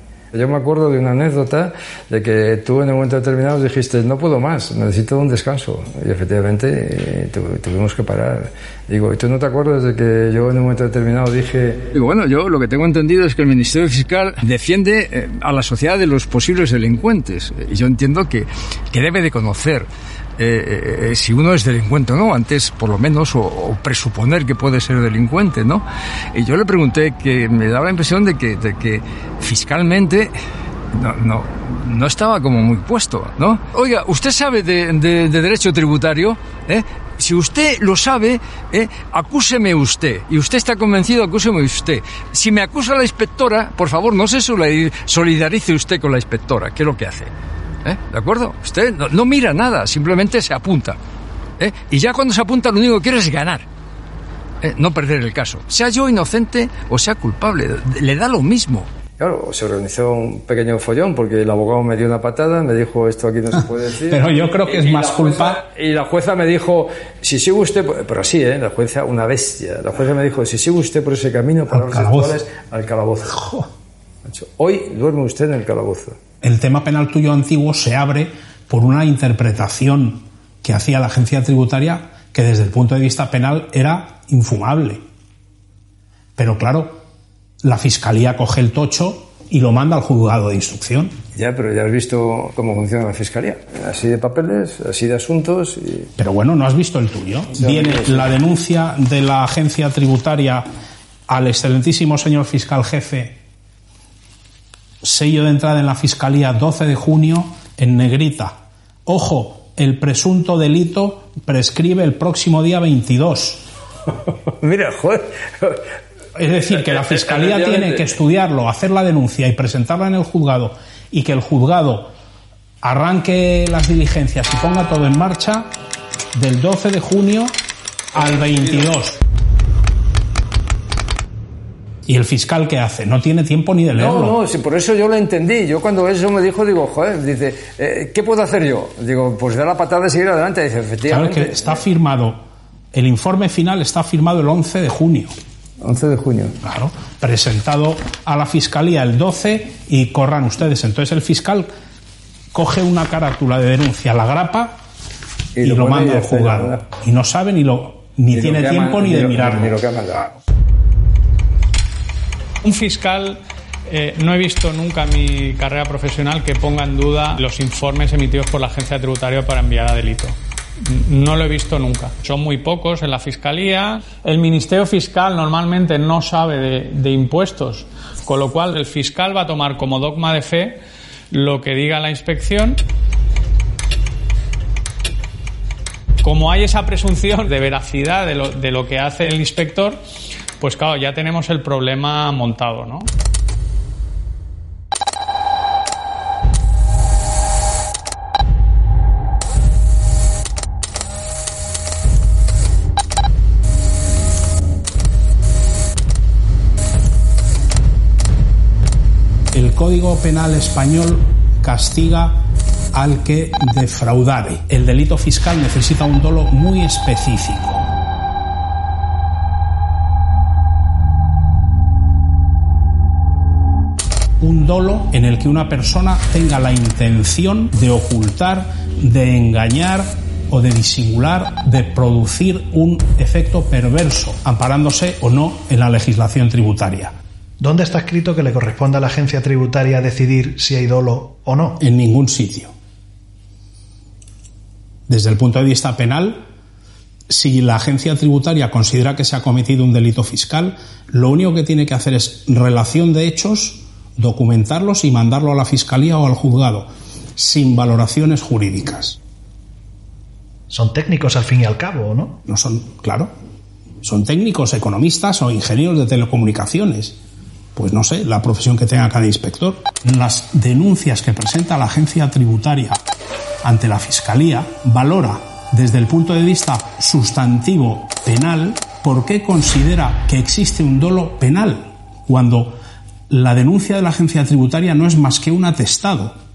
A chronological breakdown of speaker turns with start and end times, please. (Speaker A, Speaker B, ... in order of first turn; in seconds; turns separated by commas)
Speaker A: 0.3-30.3, Speaker A: 30.9-47.3, Speaker A: 47.8-51.0, Speaker A: 51.6-53.7, Speaker A: 54.6-64.3, Speaker B: 64.1-65.6, Speaker A: 65.2-73.7, Speaker B: 71.7-72.4, Speaker A: 74.2-76.2, Speaker B: 76.4-85.0, Speaker B: 86.4-87.0, Speaker B: 87.6-91.2, Speaker A: 91.3-96.1, Speaker B: 96.2-100.7, Speaker A: 97.6-98.3, Speaker B: 101.3-103.4, Speaker B: 105.0-113.6, Speaker A: 114.3-115.8, Speaker B: 116.4-122.1, Speaker A: 116.7-118.2, Speaker B: 122.8-125.7, Speaker B: 126.3-127.5, Speaker B: 128.1-129.2, Speaker B: 132.1-134.4, Speaker A: 133.9-141.8, Speaker B: 141.1-142.4, Speaker B: 142.9-145.3, Speaker A: 145.8-146.6, Speaker B: 146.6-151.7, Speaker B: 152.5-154.8, Speaker A: 155.6-156.9, Speaker B: 155.6-159.8, Speaker A: 158.3-160.4, Speaker C: 162.6-180.8, Speaker C: 181.3-182.8, Speaker C: 186.2-190.0, Speaker C: 190.6-193.1, Speaker B: 209.5-212.4, Speaker B: 212.9-217.8, Speaker B: 224.4-237.1, Speaker D: 237.6-241.8, Speaker B: 241.8-242.7, Speaker B: 245.1-246.5, Speaker B: 247.3-259.2, Speaker D: 260.7-262.4, Speaker B: 262.5-263.3, Speaker B: 264.0-267.2, Speaker B: 267.8-273.0, Speaker B: 273.6-282.8, Speaker B: 283.3-286.4